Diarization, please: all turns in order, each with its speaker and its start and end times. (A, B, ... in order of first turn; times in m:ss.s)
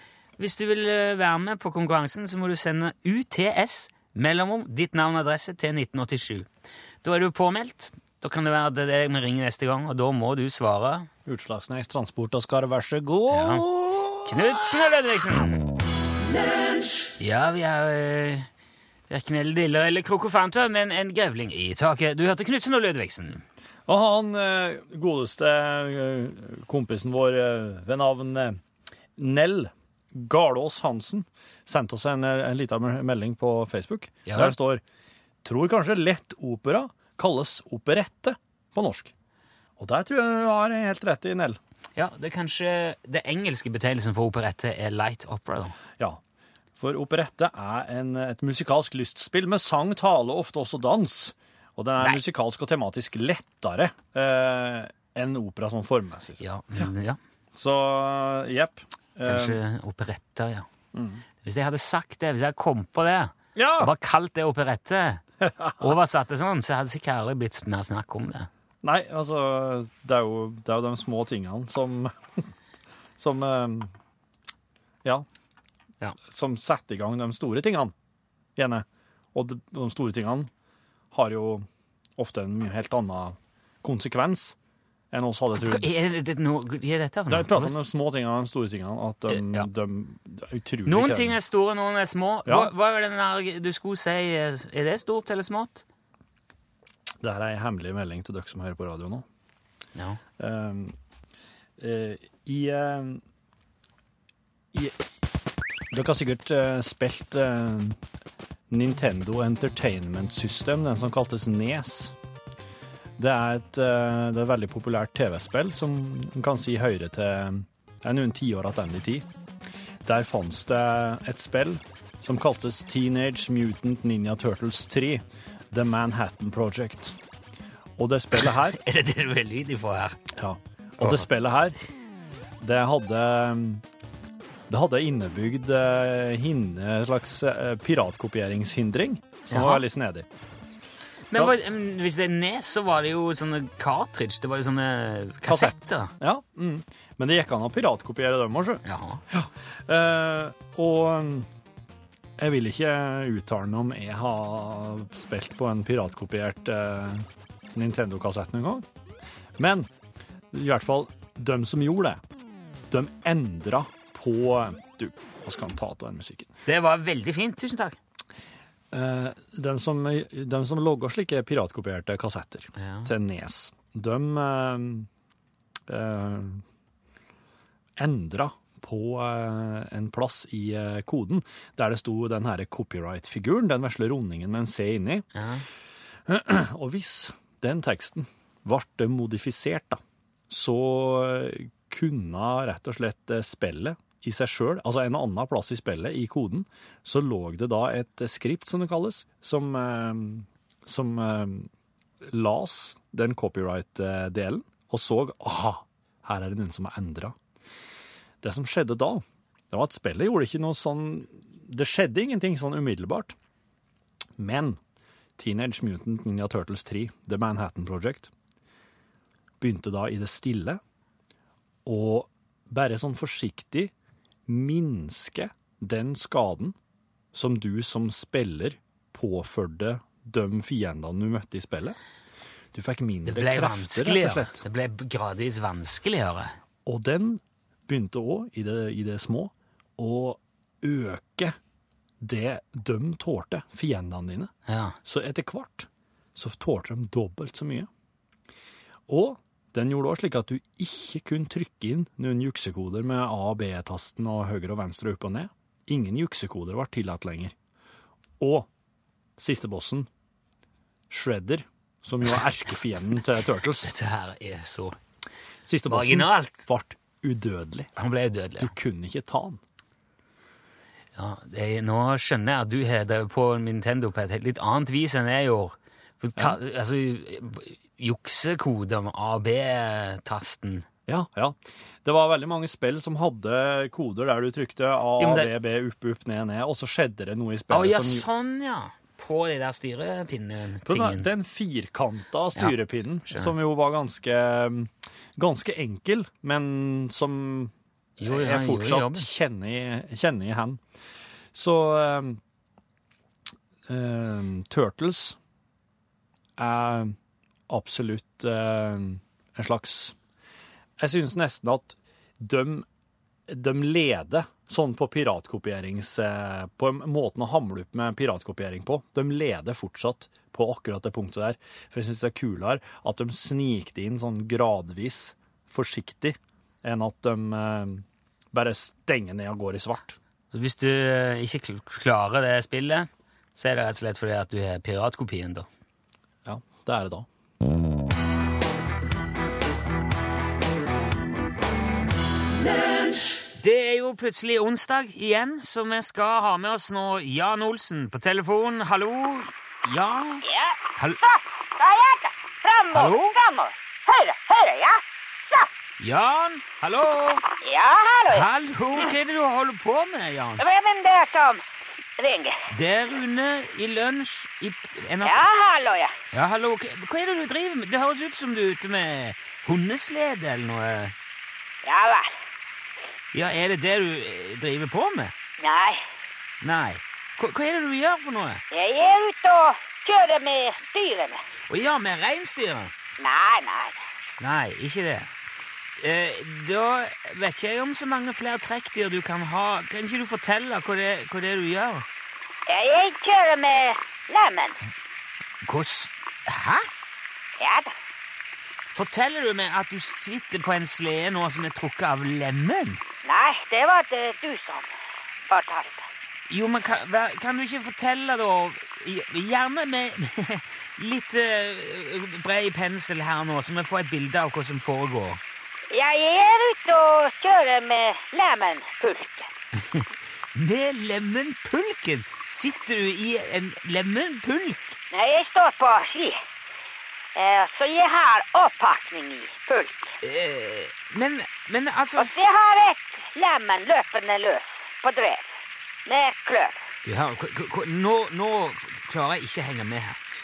0:00.4-0:06.5 A
0:07.0-0:11.1 A
0:11.2-0:14.6 B
0:13.3-0:13.6 A
0:14.2-0:15.6 A
0:17.2-0:18.5 A
0:19.1-0:23.4 A
0:23.9-0:28.6 B
0:29.2-0:34.8 B
0:34.2-0:34.6 A
0:35.4-0:39.1 B
0:39.8-0:41.6 B
0:42.0-0:45.8 A
0:46.8-0:56.9 B
0:56.4-0:57.2 A
0:57.5-0:59.6 B
0:59.2-1:00.7 A
1:00.9-1:01.2 B
1:01.4-1:05.2 A
1:03.5-1:03.9 B
1:05.4-1:05.9 B
1:05.8-1:08.5 A
1:08.8-1:12.5 B
1:13.2-1:13.9 B
1:16.2-1:17.9 B
1:18.6-1:20.5 B
1:21.1-1:21.6 B
1:22.2-1:24.6 B
1:25.1-1:25.9 B
1:25.6-1:27.8 A
1:27.3-1:31.4 B
1:29.3-1:29.7 A
1:30.9-1:35.8 A
1:32.4-1:32.7 B
1:37.2-1:39.2 B
1:40.4-1:41.0 B
1:41.8-1:43.2 B
1:44.7-1:45.0 B
1:45.9-1:48.0 B
1:48.7-1:52.1 B
1:53.2-1:59.2 B
2:00.0-2:07.2 B
2:08.0-2:08.8 B
2:08.3-2:10.3 A
2:10.3-2:11.8 B
2:11.0-2:11.2 A
2:12.6-2:13.8 B
2:14.7-2:20.3 B
2:19.5-2:19.8 A
2:21.3-2:26.1 A
2:25.4-2:31.5 B
2:28.8-2:29.2 A
2:32.4-2:38.8 B
2:39.6-2:39.9 B
2:40.5-2:42.2 B
2:42.9-2:46.5 B
2:46.6-2:48.0 A
2:48.9-2:55.1 B
2:52.8-2:53.1 A
2:55.9-2:56.6 B
2:58.0-3:05.3 B
3:05.3-3:05.6 A
3:06.3-3:21.7 B
3:22.2-3:27.4 B
3:28.4-3:33.3 B
3:34.4-3:34.8 B
3:35.4-3:38.3 B
3:39.6-3:40.8 B
3:41.8-3:43.9 B
3:44.5-3:46.7 B
3:47.3-3:52.0 B
3:52.7-3:54.6 B
3:53.2-3:56.6 A
3:56.8-4:01.5 B
4:02.2-4:04.5 B
4:04.7-4:05.0 A
4:05.0-4:07.9 B
4:09.1-4:17.5 B
4:18.4-4:18.7 B
4:19.4-4:20.1 B
4:21.1-4:23.9 B
4:23.8-4:25.0 A
4:25.6-4:27.9 B
4:25.9-4:26.6 A
4:28.0-4:28.7 A
4:28.6-4:29.6 B
4:31.2-4:40.8 A
4:41.1-4:48.2 B
4:45.2-4:45.5 A
4:47.7-4:51.3 A
4:50.8-4:57.7 B
4:58.2-4:59.3 A
4:58.2-5:00.8 B
5:01.5-5:02.4 B
5:03.9-5:05.4 B
5:06.6-5:07.2 B
5:07.7-5:10.2 B
5:11.0-5:12.8 B
5:13.5-5:30.2 B
5:30.5-5:35.7 A
5:36.4-5:37.3 B
5:43.1-5:50.4 A
5:50.4-5:55.7 C
5:52.9-5:53.4 A
5:56.0-5:57.4 A
5:57.6-5:58.4 C
5:58.3-6:00.6 A
6:00.6-6:01.6 C
6:02.2-6:02.6 C
6:02.7-6:05.4 A
6:05.2-6:06.1 C
6:06.3-6:11.1 A
6:11.8-6:12.3 C
6:13.3-6:15.3 A
6:15.6-6:16.0 C
6:16.6-6:18.6 A
6:18.7-6:21.4 C
6:21.7-6:22.9 A
6:23.2-6:24.0 C
6:24.4-6:25.3 A
6:26.0-6:32.0 A
6:32.7-6:34.8 C
6:35.6-6:36.9 A
6:37.6-6:37.9 C
6:38.9-6:43.0 A
6:43.2-6:44.9 C
6:45.5-6:46.0 C
6:46.5-6:55.4 A
6:55.9-6:59.5 C
6:59.8-7:05.0 A
7:05.1-7:06.4 C
7:07.3-7:10.2 C
7:10.2-7:12.3 A
7:12.2-7:15.5 C
7:16.0-7:16.9 C
7:17.0-7:20.2 A